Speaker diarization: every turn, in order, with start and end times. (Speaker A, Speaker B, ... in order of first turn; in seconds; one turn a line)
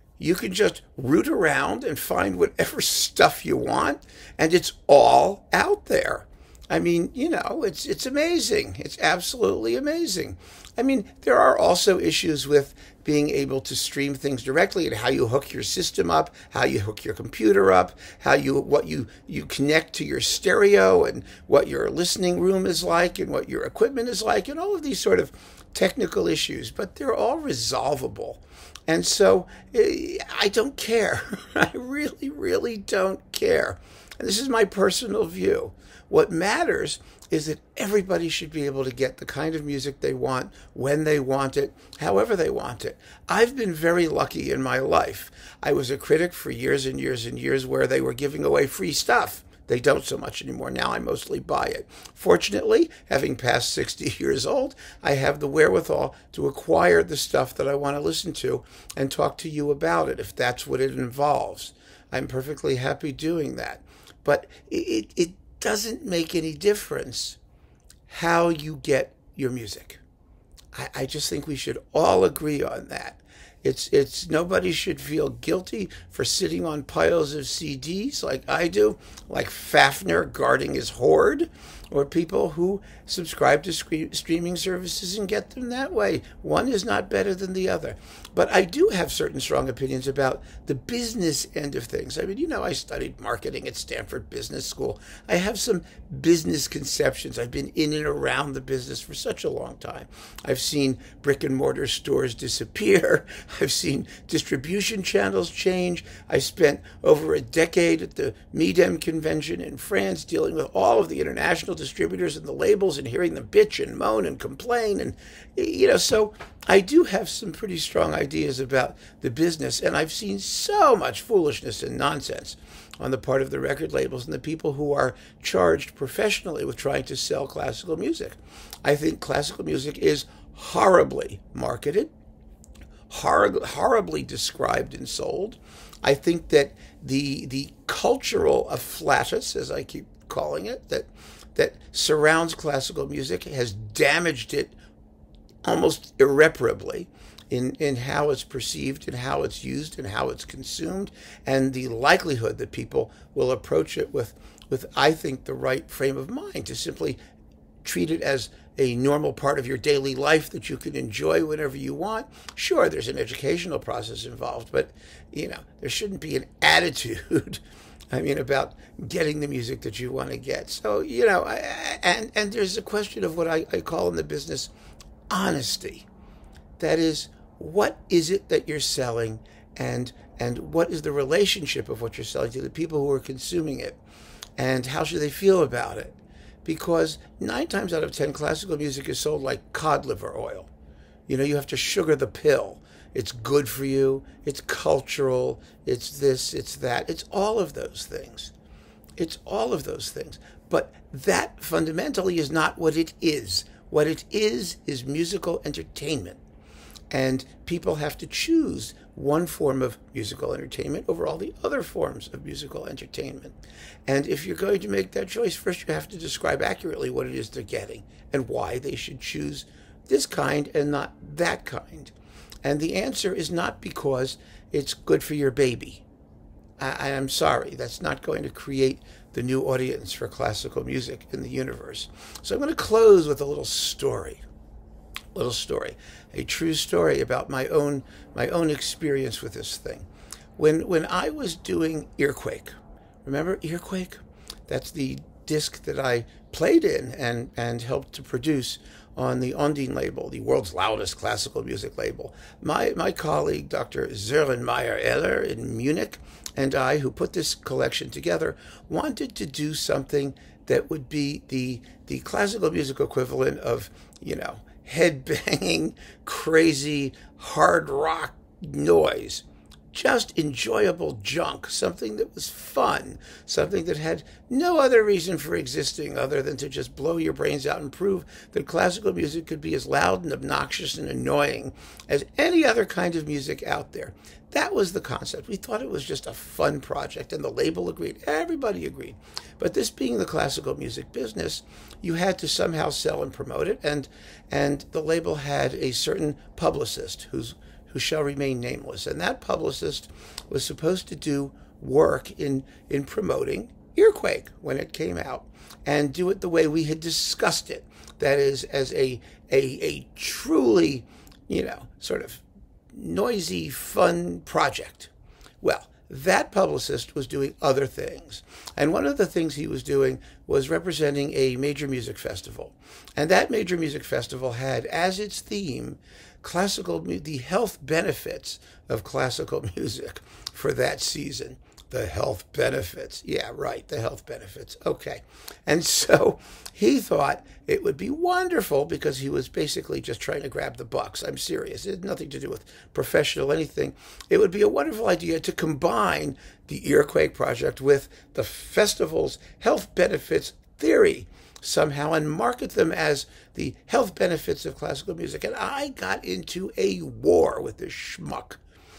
Speaker A: 0.2-67.4
Speaker A: 68.1-70.0
Speaker A: 70.7-132.1
Speaker A: 133.1-144.8
Speaker A: 145.6-157.2
Speaker A: 157.8-174.7
Speaker A: 175.3-176.1
Speaker A: 176.8-184.0
Speaker A: 184.6-190.7
Speaker A: 191.3-198.5
Speaker A: 199.2-206.4
Speaker A: 207.1-213.6
Speaker A: 214.1-222.1
Speaker A: 222.6-226.0
Speaker A: 226.8-234.4
Speaker A: 235.3-240.1
Speaker A: 240.6-242.7
Speaker A: 243.2-315.1
Speaker A: 315.6-358.6